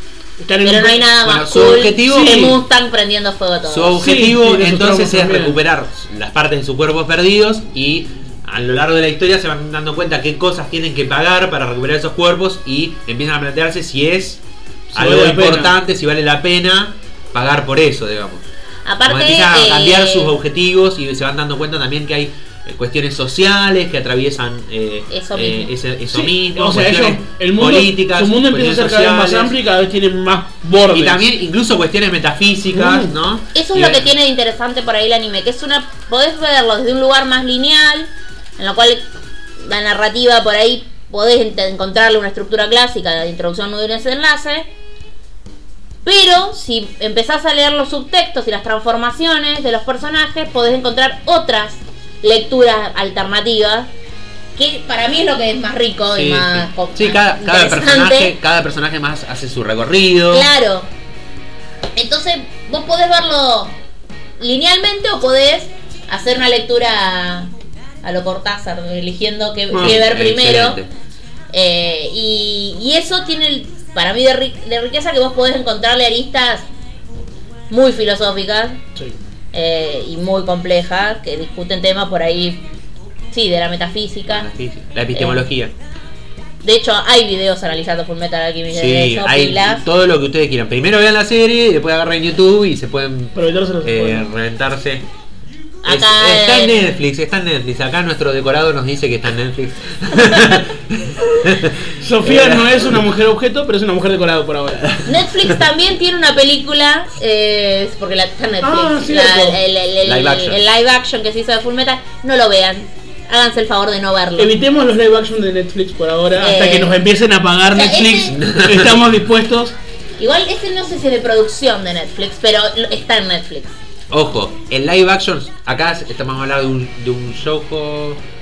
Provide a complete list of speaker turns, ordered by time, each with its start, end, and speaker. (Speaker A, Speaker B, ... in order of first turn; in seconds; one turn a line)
Speaker A: 0.4-1.1
Speaker B: 0.6-4.0
Speaker C: 1.2-2.6
Speaker A: 1.9-2.6
Speaker C: 3.6-14.4
Speaker A: 4.0-5.6
Speaker A: 14.9-15.7
Speaker C: 14.9-18.4
Speaker B: 18.8-20.3
Speaker C: 19.0-29.5
Speaker B: 25.1-25.7
Speaker A: 26.1-31.3
Speaker C: 30.9-34.1
Speaker A: 32.7-33.1
Speaker B: 33.5-39.1
Speaker B: 39.6-44.7
Speaker B: 46.0-53.9
Speaker B: 54.5-58.3
Speaker C: 56.1-60.5
Speaker B: 60.3-60.9
Speaker B: 61.9-63.8
Speaker B: 64.4-67.5
Speaker B: 68.0-70.8
Speaker A: 69.7-70.0
Speaker C: 69.8-70.9
Speaker B: 71.5-76.7
Speaker B: 77.7-78.8
Speaker B: 79.5-82.6
Speaker B: 83.3-84.5
Speaker C: 84.3-85.7
Speaker B: 85.1-85.5
Speaker B: 86.6-89.8
Speaker C: 88.7-95.0
Speaker A: 93.3-94.3
Speaker B: 95.8-97.0
Speaker C: 95.8-103.0
Speaker A: 102.0-104.9
Speaker C: 104.8-105.6
Speaker B: 105.0-114.5
Speaker A: 108.6-109.6
Speaker C: 110.0-110.6
Speaker A: 114.4-119.7
Speaker B: 116.3-117.0
Speaker B: 117.7-118.4
Speaker C: 118.3-119.0
Speaker B: 120.2-123.8
Speaker C: 124.1-128.2